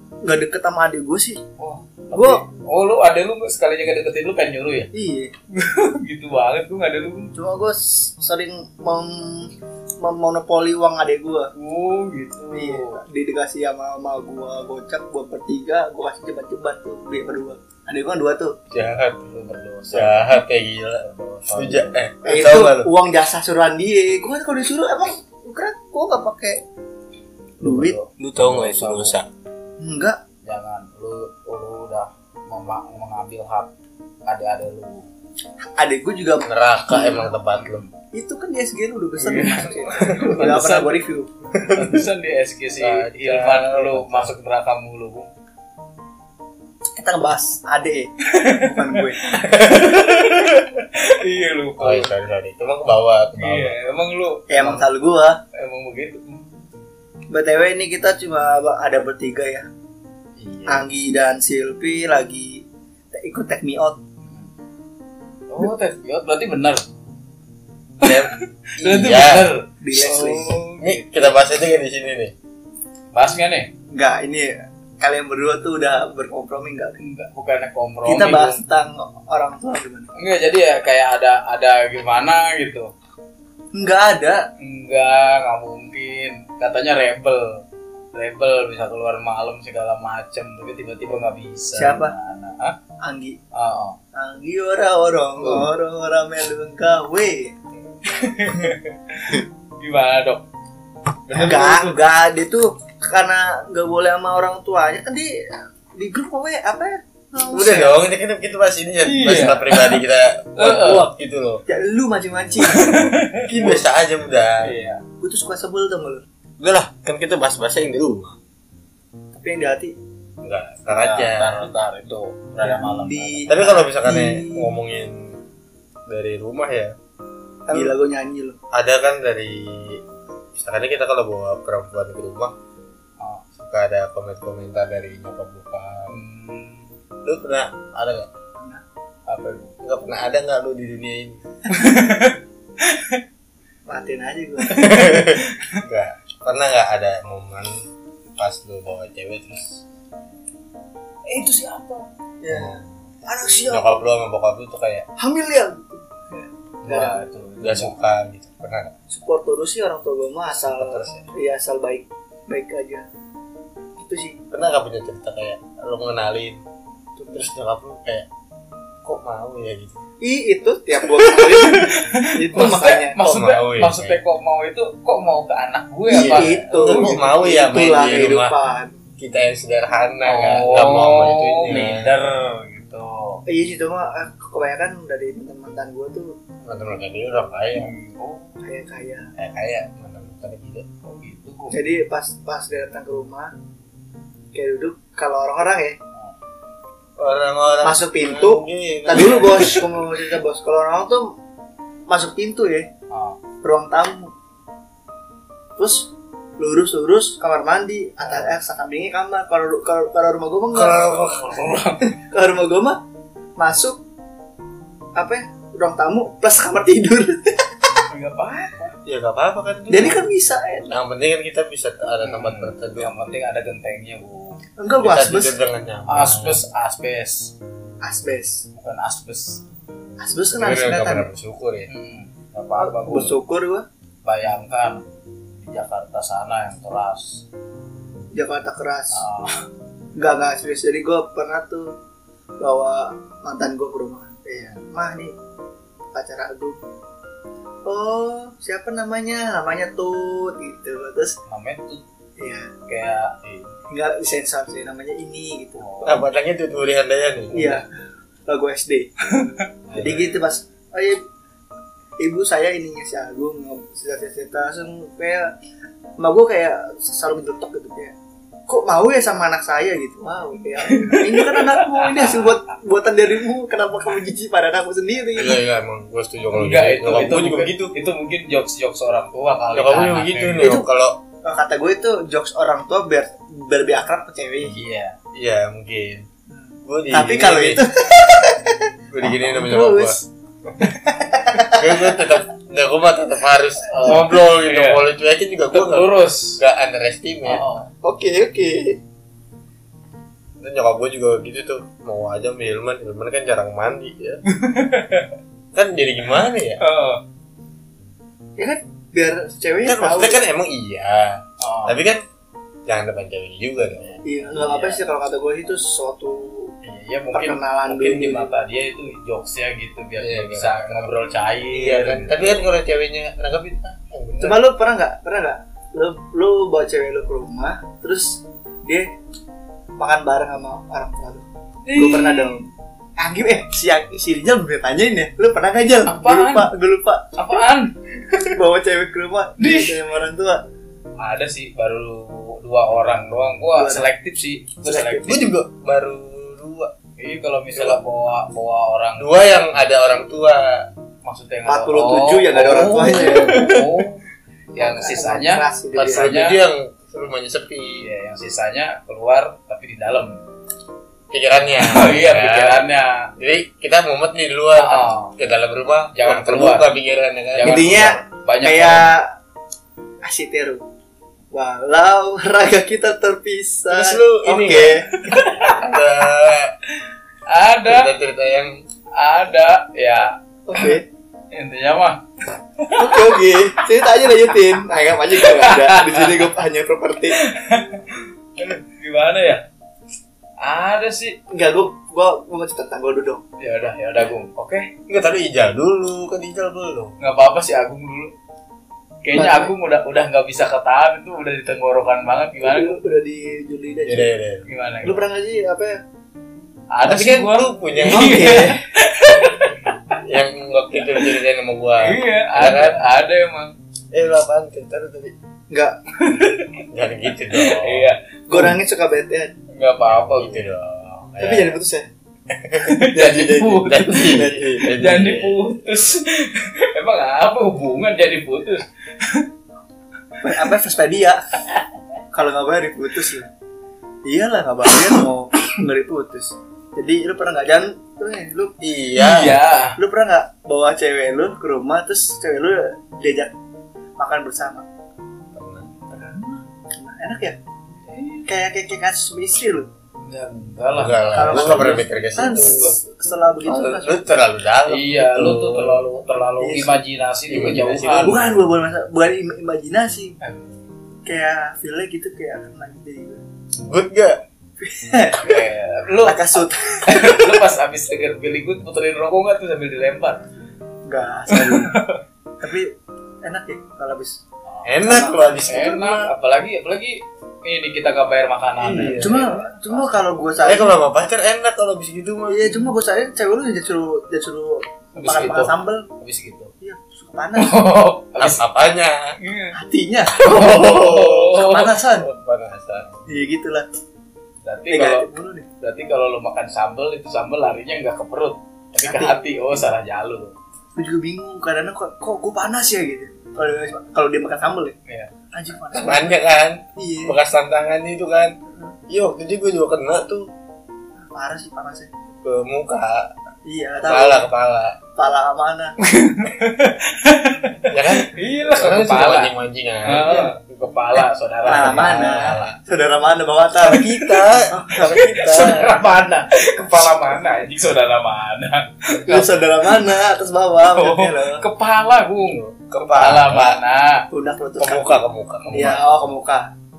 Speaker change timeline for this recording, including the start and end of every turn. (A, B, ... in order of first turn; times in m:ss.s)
0:00.2-0:01.4 A
0:01.6-0:04.9 B
0:02.1-0:02.4 A
0:04.9-0:05.3 A
0:05.5-0:07.3 B
0:07.4-0:11.5 A
0:11.6-0:13.0 B
0:12.5-0:18.6 A
0:18.7-0:19.2 C
0:19.2-0:20.4 B
0:19.9-0:22.9 C
0:21.0-0:22.0 B
0:22.2-0:26.6 A
0:27.6-0:28.0 A
0:27.6-0:29.2 B
0:28.2-0:29.3 C
0:29.8-0:30.2 A
0:30.4-0:33.7 B
0:34.3-0:35.1 B
0:35.8-0:37.3 A
0:36.4-0:37.8 C
0:37.5-0:37.9 B
0:38.1-0:41.3 A
0:39.2-0:41.0 B
0:41.5-0:42.0 C
0:41.7-0:45.3 B
0:42.8-0:44.3 C
0:47.0-0:49.2 A
0:48.2-0:52.1 B
0:49.4-0:50.7 C
0:51.8-0:53.8 C
0:53.4-0:54.9 B
0:54.5-0:55.4 A
0:55.5-0:56.4 B
0:57.3-0:59.7 A
1:00.4-1:00.9 B
1:00.7-1:04.0 A
1:04.2-1:04.5 B
1:05.5-1:06.9 B
1:08.0-1:09.5 C
1:08.0-1:11.4 B
1:09.8-1:10.6 A
1:10.8-1:12.3 C
1:13.1-1:13.7 B
1:13.9-1:17.0 A
1:17.0-1:18.6 B
1:18.1-1:20.1 A
1:20.2-1:22.9 B
1:23.7-1:24.4 A
1:24.6-1:27.6 B
1:28.1-1:32.8 B
1:31.8-1:32.2 A
1:33.0-1:33.4 A
1:33.5-1:34.0 B
1:34.2-1:37.5 A
1:35.4-1:35.7 B
1:38.1-1:40.4 B
1:41.3-1:42.0 B
1:41.3-1:48.0 A
1:47.5-1:51.6 C
1:49.0-1:50.0 B
1:50.6-1:51.1 B
1:51.7-1:53.8 A
1:52.7-1:53.5 B
1:53.5-1:54.7 C
1:54.6-1:55.0 B
1:55.2-1:56.2 A
1:56.6-1:58.4 C
1:59.3-1:59.9 A
2:00.4-2:01.6 C
2:00.9-2:03.5 B
2:02.6-2:04.7 A
2:03.5-2:05.4 C
2:06.1-2:06.9 C
2:07.7-2:08.6 A
2:08.7-2:10.0 C
2:10.6-2:12.5 C
2:13.2-2:13.4 B
2:13.6-2:16.1 C
2:16.1-2:16.9 B
2:17.2-2:18.3 C
2:18.6-2:18.8 A
2:19.3-2:19.8 B
2:19.8-2:21.4 C
2:21.7-2:23.2 B
2:23.9-2:25.0 A
2:24.7-2:27.7 C
2:24.9-2:25.8 B
2:28.4-2:29.8 C
2:31.3-2:32.0 B
2:32.4-2:34.0 A
2:32.5-2:32.9 C
2:33.7-2:35.1 C
2:35.2-2:37.2 A
2:36.8-2:38.0 B
2:36.8-2:38.9 C
2:39.1-2:43.0 A
2:40.6-2:41.2 C
2:44.0-2:44.4 A
2:44.5-2:46.6 C
2:47.2-2:47.5 A
2:47.3-2:48.3 C
2:49.0-2:50.0 C
2:50.2-2:53.2 A
2:51.6-2:57.2 B
2:53.2-2:54.2 C
2:56.1-2:58.9 A
2:56.1-2:58.5 C
2:59.2-3:02.1 C
3:00.3-3:03.4 B
3:03.5-3:06.3 A
3:06.6-3:07.9 C
3:07.7-3:08.6 B
3:08.6-3:09.3 A
3:09.4-3:10.9 C
3:11.0-3:11.8 B
3:11.7-3:13.5 A
3:14.5-3:16.0 A
3:17.2-3:19.9 C
3:17.8-3:21.3 A
3:19.2-3:19.7 B
3:22.1-3:22.9 A
3:23.1-3:23.4 B
3:23.6-3:24.3 A
3:25.8-3:31.0 A
3:30.7-3:31.6 C
3:31.1-3:32.1 B
3:32.2-3:33.0 A
3:33.6-3:34.0 A
3:35.2-3:38.0 A
3:38.1-3:38.9 B
3:39.0-3:40.2 C
3:39.9-3:40.9 A
3:40.9-3:43.1 C
3:42.2-3:44.6 B
3:44.8-3:45.6 A
3:45.0-3:46.6 C
3:46.1-3:47.5 B
3:48.0-3:48.6 A
3:48.8-3:49.6 B
3:50.2-3:51.3 A
3:50.5-3:51.9 C
3:51.9-3:53.3 B
3:52.8-3:53.9 A
3:54.2-3:55.0 B
3:55.6-3:57.4 B
3:58.3-3:59.2 A
3:59.1-3:59.6 B
4:00.2-4:01.9 A
4:02.6-4:05.3 A
4:06.1-4:06.8 A
4:07.8-4:11.4 A
4:11.5-4:12.0 B
4:12.4-4:12.7 A
4:12.9-4:13.8 B
4:13.9-4:15.9 A
4:15.8-4:16.3 B
4:16.0-4:17.8 C
4:17.5-4:17.9 A
4:17.5-4:17.8 B
4:18.5-4:19.1 A
4:19.3-4:19.7 B
4:19.9-4:20.3 C
4:20.0-4:21.2 A
4:22.2-4:25.5 A
4:26.2-4:28.1 A
4:28.7-4:35.6 A
4:30.9-4:32.6 B
4:35.4-4:38.0 C
4:36.5-4:40.7 B
4:39.7-4:41.2 C
4:40.6-4:40.9 A
4:41.4-4:44.8 A
4:44.6-4:45.2 B
4:45.3-4:46.2 C
4:46.5-4:50.3 A
4:46.9-4:47.8 C
4:49.1-4:50.2 C
4:50.9-4:52.2 A
4:51.7-4:57.6 C
4:53.9-4:55.0 B
4:55.7-4:56.6 B
4:57.4-4:57.9 B
4:58.0-4:59.0 A
5:00.6-5:04.4 C
5:04.5-5:05.3 B
5:05.7-5:06.8 C
5:06.8-5:07.2 B
5:08.6-5:10.4 A
5:09.8-5:12.2 C
5:11.6-5:12.0 B
5:12.9-5:14.2 C
5:14.0-5:15.0 B
5:14.2-5:16.7 A
5:16.8-5:22.5 B
5:17.3-5:18.5 A
5:20.2-5:21.1 C
5:21.7-5:24.6 C
5:24.4-5:29.1 A
5:30.0-5:37.4 A
5:31.9-5:32.6 B
5:36.1-5:36.7 B
5:37.4-5:37.9 B
5:38.3-5:40.6 A
5:39.6-5:40.0 B
5:41.2-5:45.5 B
5:43.8-5:44.1 A
5:44.9-5:45.3 A
5:45.2-5:46.9 C
5:47.2-5:49.3 B
5:49.2-5:50.9 C
5:51.2-5:54.2 B
5:51.7-5:53.8 A
5:53.1-5:53.8 C
5:54.8-5:56.6 B
5:54.8-5:56.4 A
5:56.0-5:58.1 C
5:58.0-6:00.4 B
6:01.3-6:02.8 C
6:01.8-6:03.3 B
6:03.4-6:08.2 C
6:04.8-6:05.3 B
6:06.1-6:06.9 B
6:07.5-6:09.1 B
6:07.6-6:09.3 A
6:10.2-6:10.8 A
6:11.5-6:15.4 A
6:13.9-6:16.8 C
6:15.2-6:15.9 B
6:17.5-6:18.1 B
6:17.8-6:18.8 C
6:19.2-6:21.0 B
6:20.7-6:21.0 A
6:21.5-6:22.2 B
6:22.8-6:23.3 B
6:23.0-6:27.4 A
6:25.4-6:26.5 B
6:27.3-6:29.6 B
6:30.6-6:31.4 B
6:31.5-6:33.4 A
6:33.6-6:34.9 B
6:35.1-6:37.2 C
6:37.2-6:38.3 B
6:39.2-6:43.0 B
6:39.3-6:39.7 A
6:42.6-6:44.3 A
6:44.1-6:44.6 C
6:44.7-6:45.2 B
6:45.0-6:46.0 A
6:46.9-6:50.2 B
6:47.1-6:48.5 C
6:48.0-6:48.8 A
6:50.2-6:53.0 C
6:51.1-6:51.3 B
6:52.0-6:53.8 B
6:54.1-6:55.3 C
6:55.7-6:56.0 A
6:56.2-6:56.8 B
6:56.9-6:58.1 C
6:57.5-6:58.7 B
6:58.5-6:59.5 A
6:59.7-7:00.6 B
7:00.1-7:01.8 C
7:01.4-7:02.1 A
7:02.5-7:05.6 C
7:02.8-7:09.5 B
7:03.2-7:04.8 A
7:10.4-7:11.4 A
7:12.3-7:13.5 A
7:14.2-7:18.7 A
7:18.8-7:19.6 C
7:19.2-7:20.0 B
7:20.0-7:23.5 A
7:24.2-7:24.8 A
7:25.6-7:25.9 C
7:26.1-7:27.6 A
7:28.1-7:28.5 B
7:28.5-7:29.9 A
7:30.2-7:32.9 B
7:30.9-7:32.9 C
7:31.3-7:34.2 A
7:33.7-7:36.1 C
7:34.9-7:38.4 B
7:36.6-7:37.0 A
7:37.5-7:38.6 C
7:38.2-7:40.4 A
7:40.4-7:40.7 B
7:41.3-7:43.4 A
7:43.8-7:44.4 C
7:44.8-7:45.6 A
7:45.4-7:46.4 B
7:46.2-7:47.6 A
7:47.1-7:50.4 B
7:51.1-7:52.0 A
7:51.5-7:52.2 B
7:52.6-7:52.9 A
7:53.4-7:54.4 A
7:54.7-7:54.9 B
7:54.8-7:56.3 C
7:55.0-7:55.7 A
7:55.7-8:00.2 B
7:58.8-8:01.0 A
7:58.9-7:59.4 C
8:00.6-8:02.8 C
8:02.5-8:06.1 A
8:05.2-8:06.7 B
8:06.8-8:07.8 A
8:07.6-8:08.6 B
8:08.4-8:09.3 C
8:09.4-8:09.8 B
8:09.8-8:12.3 A
8:10.4-8:13.2 C
8:10.4-8:11.9 B
8:13.3-8:13.9 A
8:14.6-8:15.3 B
8:14.9-8:15.7 A
8:15.8-8:20.6 B
8:19.0-8:19.4 A
8:21.0-8:25.0 A
8:25.5-8:26.3 A
8:25.9-8:28.6 C
8:27.0-8:27.4 A
8:29.1-8:30.5 C
8:31.3-8:32.1 A
8:32.4-8:33.3 C
8:33.6-8:34.5 A
8:34.0-8:35.0 C
8:35.2-8:36.0 A
8:36.0-8:39.5 B
8:37.9-8:40.5 C
8:40.0-8:42.5 B
8:41.6-8:44.1 A
8:41.7-8:42.8 C
8:43.8-8:45.9 C
8:43.9-8:44.5 B
8:44.7-8:45.9 A
8:45.0-8:49.6 B
8:49.2-8:51.6 A
8:50.8-8:54.3 B
8:52.5-8:53.8 C
8:54.3-8:56.7 A
8:54.8-8:56.0 C
8:55.6-8:56.1 B